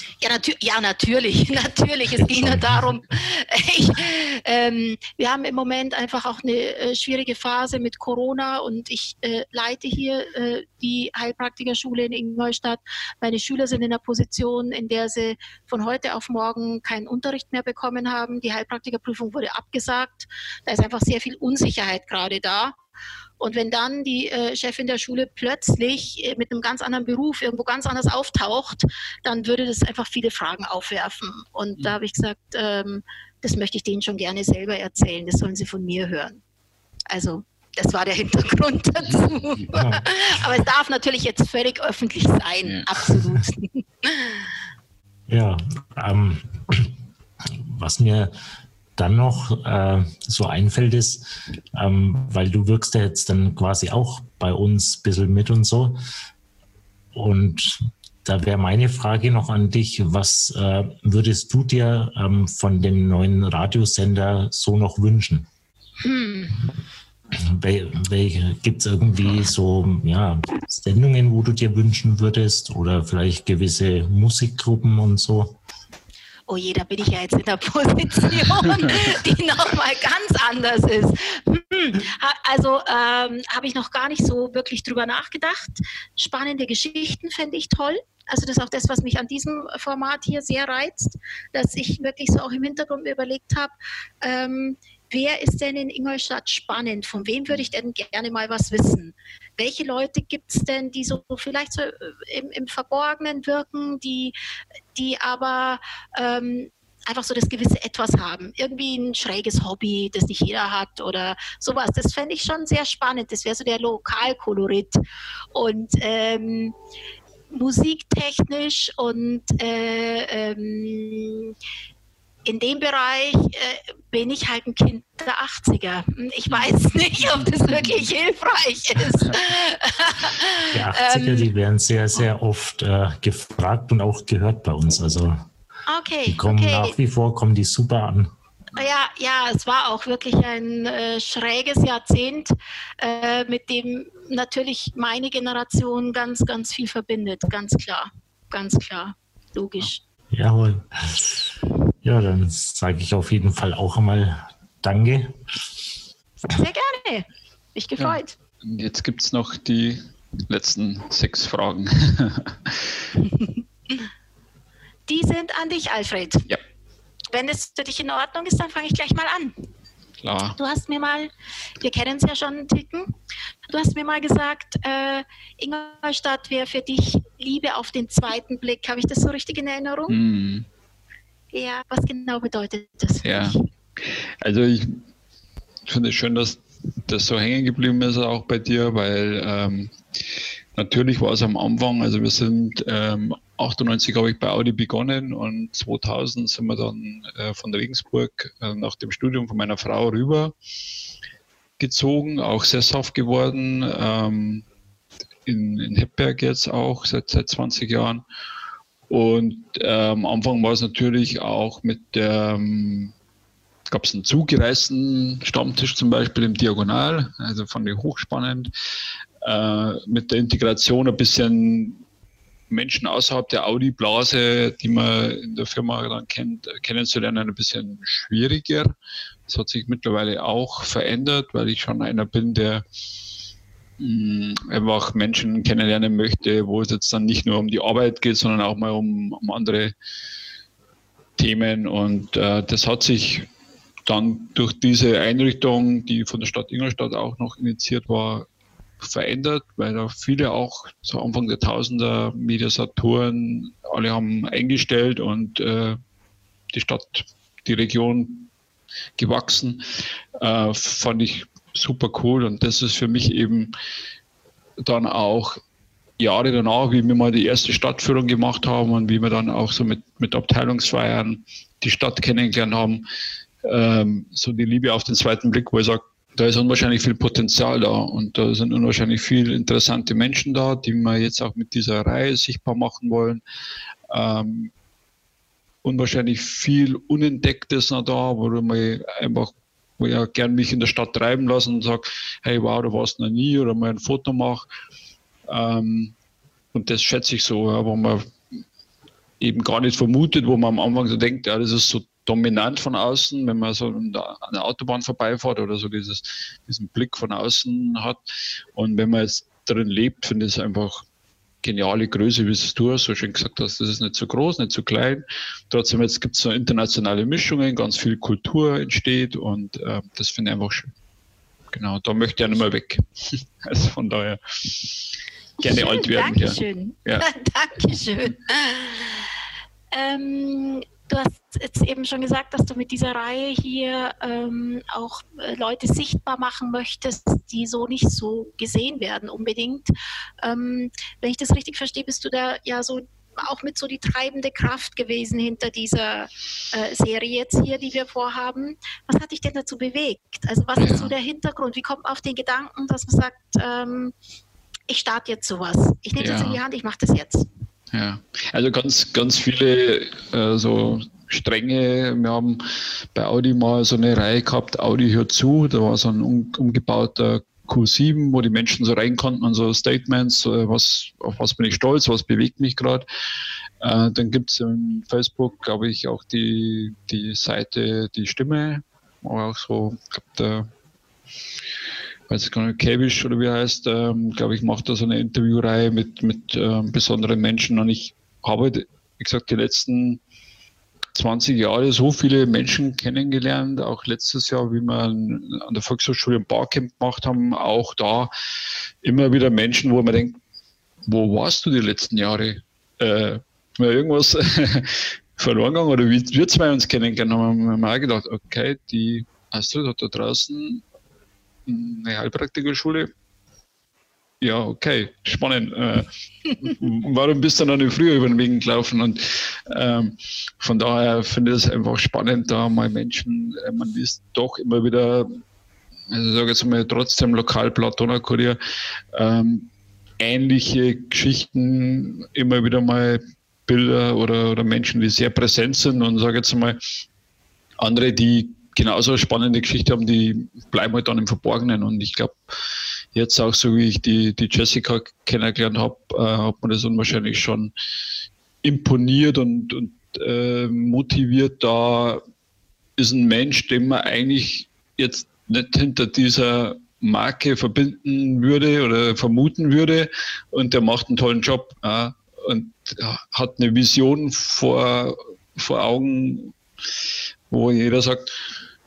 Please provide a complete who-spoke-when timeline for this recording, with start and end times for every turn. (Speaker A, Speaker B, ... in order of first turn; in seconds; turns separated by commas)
Speaker A: 0.2-22.8, Speaker B: 2.1-2.9, Speaker A: 23.4-36.4, Speaker A: 37.1-44.5, Speaker C: 39.0-39.7, Speaker B: 39.7-40.1, Speaker B: 45.3-46.9, Speaker B: 47.5-48.3, Speaker B: 49.0-56.0, Speaker B: 57.1-65.5, Speaker A: 66.0-66.6, Speaker B: 67.3-75.6, Speaker A: 76.5-104.3, Speaker A: 105.0-115.0, Speaker A: 115.5-116.8, Speaker A: 117.5-121.5, Speaker A: 122.5-131.5, Speaker C: 126.5-128.1, Speaker B: 130.7-135.5, Speaker A: 135.9-137.0, Speaker B: 136.3-138.3, Speaker A: 138.8-150.0, Speaker B: 150.3-151.5, Speaker B: 152.0-155.4, Speaker A: 156.4-158.3, Speaker C: 158.0-162.9, Speaker A: 163.3-164.1, Speaker A: 165.1-166.5, Speaker A: 167.3-169.6, Speaker C: 170.2-170.6, Speaker A: 170.6-173.1, Speaker A: 173.7-180.2, Speaker C: 180.1-180.7, Speaker A: 181.5-183.6, Speaker C: 183.2-185.0, Speaker C: 185.9-190.0, Speaker C: 190.8-200.5, Speaker C: 201.8-204.7, Speaker C: 205.5-208.2, Speaker C: 209.1-213.1, Speaker C: 213.9-218.7, Speaker C: 219.4-222.0, Speaker C: 222.7-228.9, Speaker C: 229.5-232.8, Speaker C: 234.0-239.9, Speaker C: 241.4-243.5, Speaker C: 244.1-248.5, Speaker C: 249.0-256.0, Speaker C: 256.7-258.5, Speaker C: 259.2-259.8, Speaker C: 260.4-263.7, Speaker C: 264.8-265.6, Speaker C: 266.2-273.0, Speaker C: 273.6-283.4, Speaker C: 284.1-284.7, Speaker C: 285.8-294.6, Speaker C: 295.5-296.1, Speaker C: 296.7-298.4, Speaker C: 299.4-308.2, Speaker C: 308.8-311.1, Speaker C: 311.6-320.9, Speaker C: 321.7-327.3, Speaker A: 325.6-329.3, Speaker A: 329.9-354.1, Speaker C: 350.8-351.1, Speaker A: 354.9-357.5, Speaker C: 356.2-356.6, Speaker C: 357.9-373.1, Speaker C: 373.8-380.7, Speaker C: 382.3-390.2, Speaker C: 391.1-398.3, Speaker C: 399.0-400.4, Speaker C: 401.1-410.8, Speaker C: 411.7-413.1, Speaker C: 414.4-425.4, Speaker C: 426.1-428.6, Speaker C: 429.1-436.8, Speaker C: 437.8-442.4, Speaker C: 443.1-447.7, Speaker C: 448.6-452.2, Speaker C: 453.0-466.6, Speaker C: 467.5-468.3